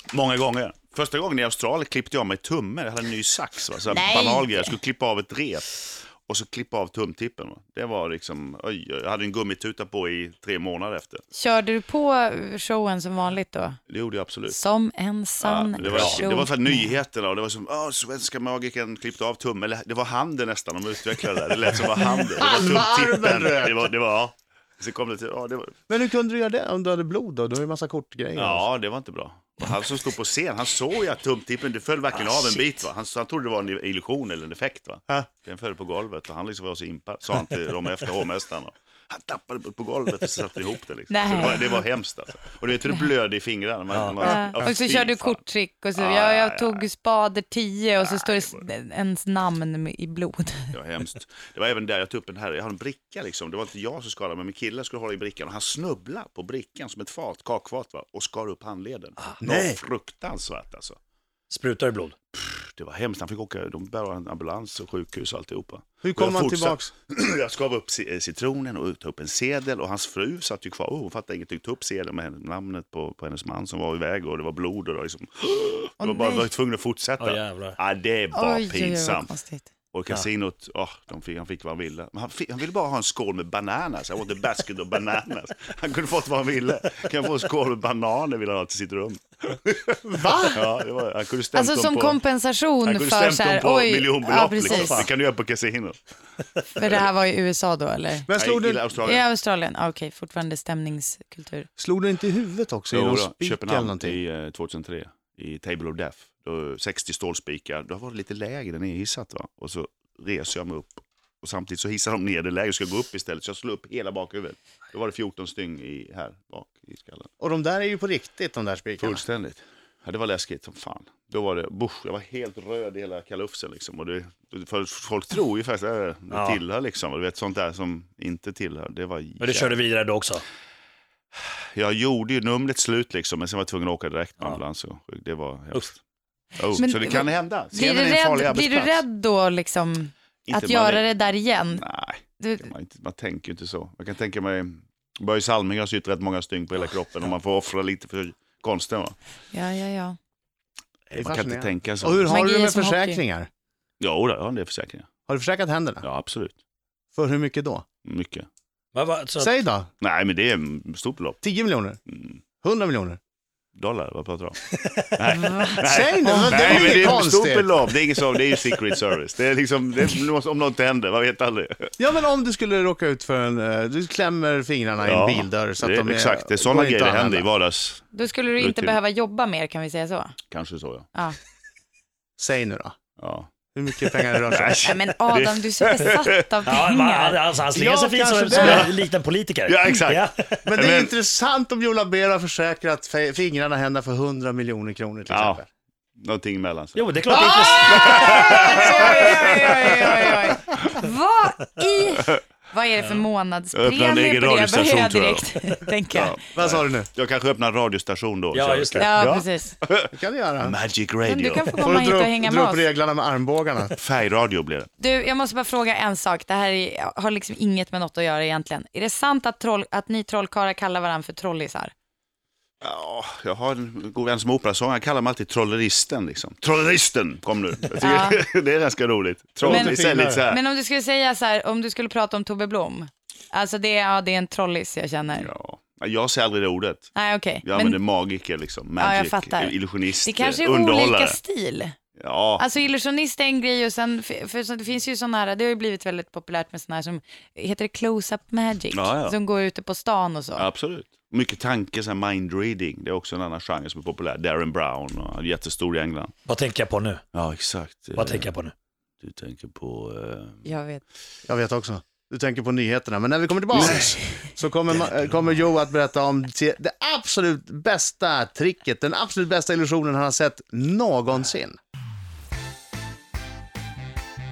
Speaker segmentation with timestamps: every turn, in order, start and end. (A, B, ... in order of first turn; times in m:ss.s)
0:00.1-0:11.2 A
0:03.9-0:04.7 B
0:11.3-0:13.8 B
0:13.9-0:14.6 A
0:14.5-0:16.9 B
0:15.4-0:25.7 A
0:15.8-0:16.2 C
0:22.1-0:23.9 D
0:25.9-0:28.7 D
0:28.4-0:45.4 A
0:41.1-0:41.8 B
0:43.9-0:44.2 C
0:44.2-0:50.7 B
0:46.0-0:46.8 A
0:48.0-0:48.6 A
0:50.7-1:01.0 A
0:59.2-0:59.8 C
1:01.5-1:02.1 C
1:02.3-1:19.3 A
1:06.0-1:06.9 D
1:16.0-1:16.5 B
1:17.2-1:17.8 C
1:18.3-1:19.7 B
1:19.9-1:30.0 A
1:30.0-1:30.6 D
1:30.5-1:32.2 A
1:31.5-1:35.0 B
1:32.8-1:36.0 A
1:34.6-1:35.1 D
1:36.7-1:38.3 B
1:38.3-1:38.9 D
1:38.4-1:39.2 A
1:39.0-1:41.7 B
1:41.8-1:44.2 D
1:42.9-1:57.3 A
1:57.4-1:59.2 D
1:59.0-2:09.7 A
2:06.3-2:06.6 C
2:09.4-2:10.4 C
2:11.7-2:16.0 A
2:16.6-2:19.0 A
2:16.7-2:21.8 B
2:20.5-2:21.1 A
2:21.7-2:29.1 A
2:22.4-2:22.7 B
2:29.5-2:30.2 B
2:31.1-2:32.3 A
2:31.1-2:33.5 D
2:32.3-2:33.2 B
2:34.0-2:35.1 A
2:35.3-2:36.0 D
2:36.0-2:36.6 A
2:37.1-2:37.8 D
2:38.0-2:38.5 A
2:38.9-2:39.5 C
2:39.4-2:39.9 D
2:40.0-2:41.4 A
2:41.4-2:42.0 D
2:42.1-2:42.4 A
2:42.6-2:43.2 D
2:43.7-2:44.6 A
2:44.7-2:45.1 C
2:45.2-2:51.9 A
2:45.3-2:45.8 B
2:45.8-2:47.7 D
2:52.0-2:57.5 D
2:55.0-2:58.0 A
2:58.1-3:00.3 B
2:58.6-2:59.0 A
3:00.5-3:01.1 A
3:02.4-3:02.9 D
3:03.2-3:03.5 A
3:03.7-3:04.9 D
3:04.0-3:06.4 A
3:04.8-3:07.4 B
3:06.6-3:10.7 C
3:07.7-3:09.0 D
3:08.6-3:09.0 A
3:09.7-3:10.2 A
3:10.6-3:15.7 D
3:10.8-3:11.1 A
3:15.3-3:15.6 A
3:16.2-3:17.1 A
3:16.9-3:18.5 C
3:17.3-3:17.7 D
3:17.6-3:26.4 B
3:17.8-3:20.8 A
3:18.7-3:19.2 D
3:23.7-3:25.5 A
3:26.1-3:31.8 A
3:26.5-3:27.1 D
3:28.5-3:29.3 C
3:29.0-3:29.7 B
3:30.1-3:30.8 D
3:31.2-3:32.8 B
3:31.8-3:34.0 D
3:34.0-3:34.9 A
3:35.0-3:41.9 B
3:42.8-3:50.6 A
3:48.0-3:48.4 B
3:49.6-3:50.4 D
3:49.6-3:55.5 B
3:55.3-4:01.4 A
3:57.1-3:58.0 B
3:59.0-4:02.0 B
4:02.2-4:02.7 A
4:02.6-4:10.6 B
4:08.9-4:09.3 A
4:10.5-4:16.3 A
4:16.4-4:17.2 C
4:17.3-4:18.5 A
4:18.1-4:18.7 C
4:19.2-4:20.6 A
4:20.6-4:21.0 B
4:21.5-4:31.8 D
4:23.7-4:24.2 A